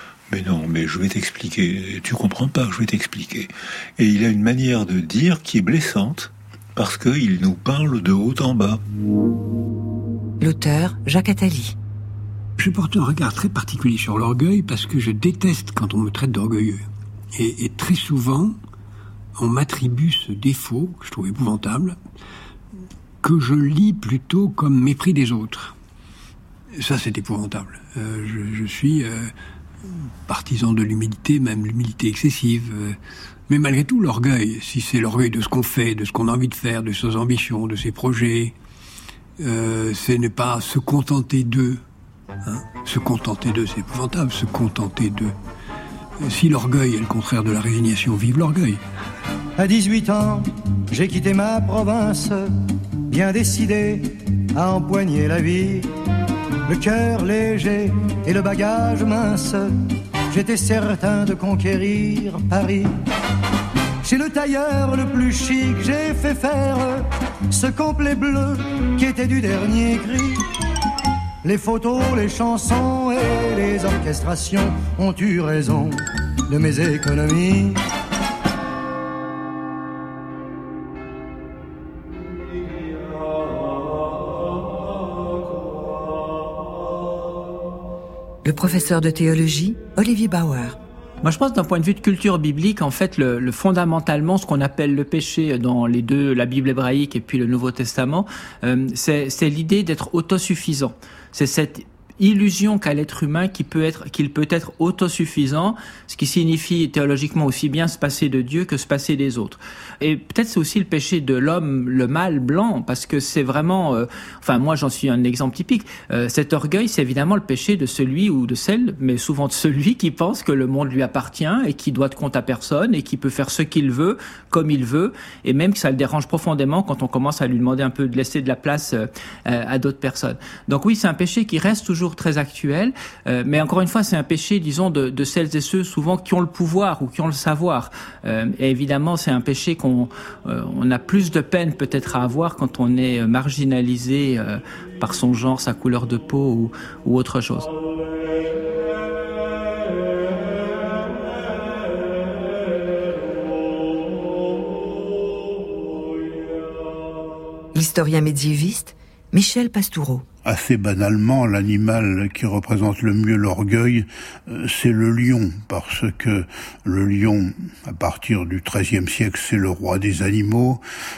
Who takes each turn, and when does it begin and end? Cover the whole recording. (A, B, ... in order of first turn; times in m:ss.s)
0:00.3-0:08.8 A
0:10.4-0:11.7 B
0:12.6-0:18.6 C
0:19.4-0:22.0 C
0:23.2-0:25.7 C
0:26.8-0:29.3 C
0:30.2-0:33.0 C
0:33.5-0:38.5 C
0:39.4-0:41.8 C
0:42.4-0:45.3 C
0:46.2-0:48.8 C
0:49.6-0:52.4 D
0:53.1-0:55.9 D
0:56.7-0:59.7 D
1:00.3-1:02.9 D
1:04.0-1:10.4 D
1:11.4-1:17.8 D
1:28.4-1:30.8 B
1:31.2-2:27.7 E
2:37.7-2:40.2 B
2:40.4-2:50.8 F